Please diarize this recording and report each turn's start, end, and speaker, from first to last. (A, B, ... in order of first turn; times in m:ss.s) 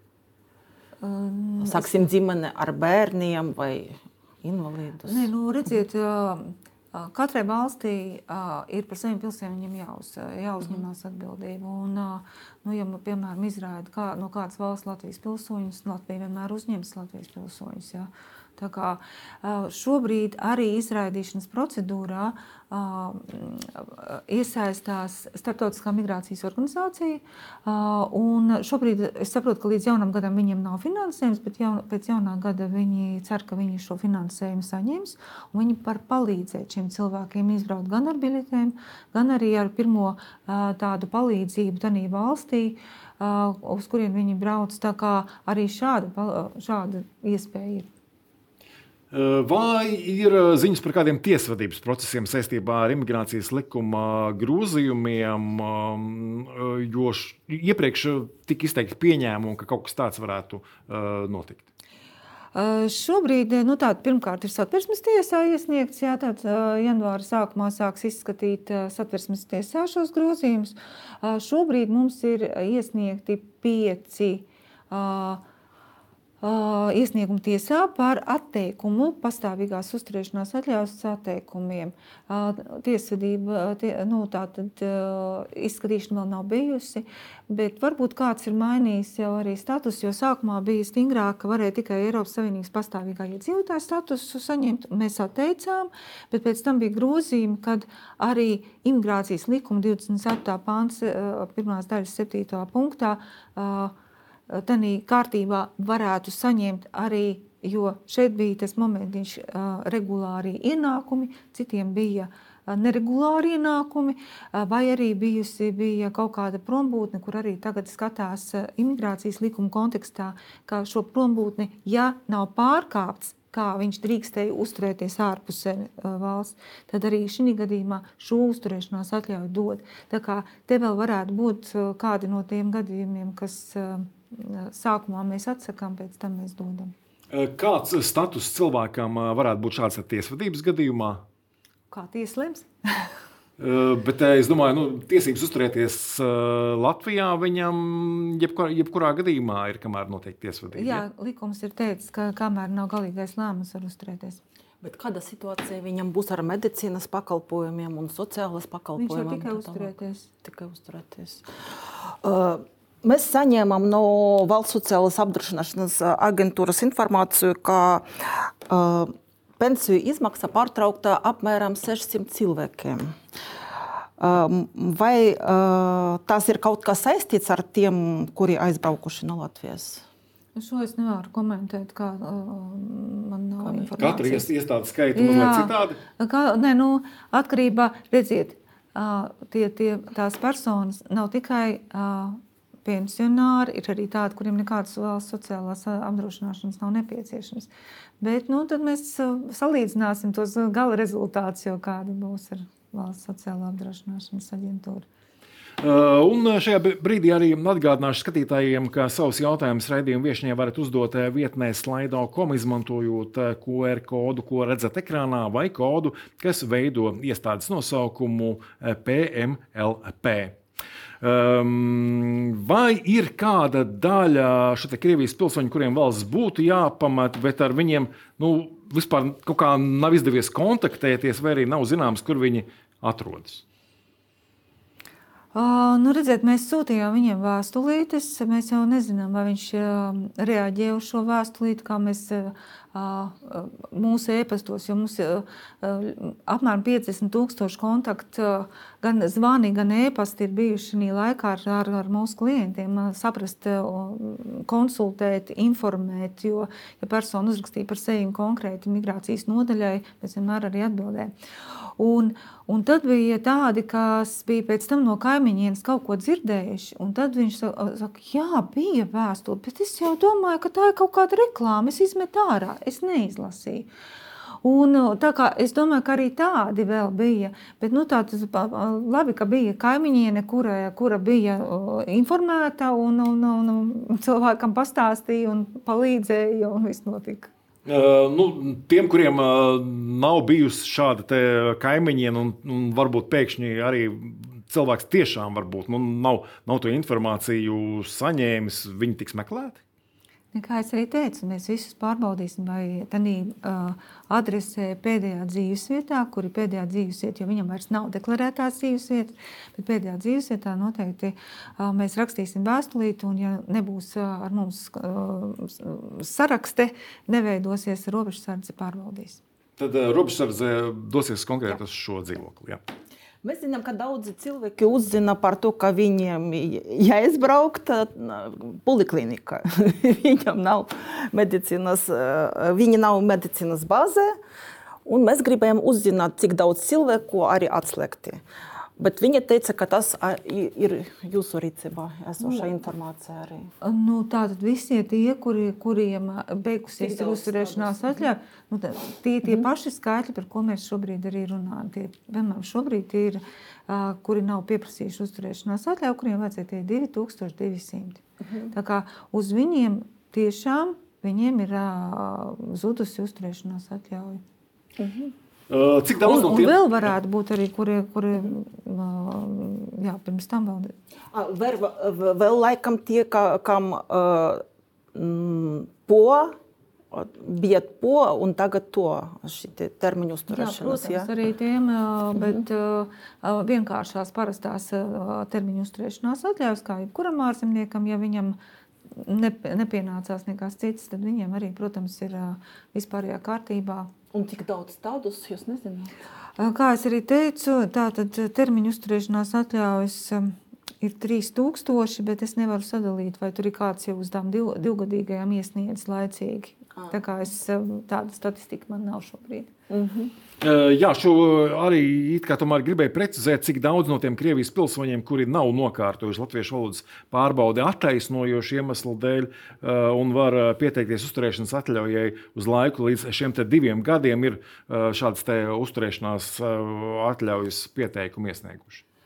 0:01.0-0:02.0 A
0:01.6-0:05.3 B
0:05.0-0:47.8 A
0:49.1-1:01.6 C
1:02.5-1:15.4 A
1:16.4-1:43.9 A
1:44.5-2:16.9 A
2:17.3-2:21.2 C
2:21.9-2:23.1 A
2:23.6-2:31.0 C
2:30.7-2:34.4 A
2:34.8-2:53.2 B
2:39.0-2:40.3 A
2:54.2-3:00.0 B
3:00.6-3:04.4 A
3:03.6-3:03.9 B
3:04.0-3:06.0 C
3:05.1-3:17.7 A
3:18.2-3:25.0 A
3:25.8-3:40.6 C
3:41.2-3:53.6 C
3:55.5-4:21.3 A
4:22.0-4:33.9 A
4:34.6-4:47.5 A
4:47.8-4:59.8 C
5:00.5-5:19.4 A
5:19.8-5:22.8 C
5:23.4-5:34.4 B
5:35.0-5:38.4 B
5:39.0-5:43.7 B
5:42.4-5:42.7 A
5:43.8-6:04.4 A
5:47.0-5:48.2 B
5:58.4-5:58.7 B
6:05.0-6:05.3 B
6:05.7-6:07.1 C
6:06.2-6:10.9 A
6:11.3-6:16.6 B
6:17.1-6:21.3 B
6:20.5-6:28.6 A
6:29.1-6:34.1 A
6:34.3-6:36.1 B
6:36.6-6:49.7 A
6:49.9-6:50.3 B
6:50.6-7:09.0 C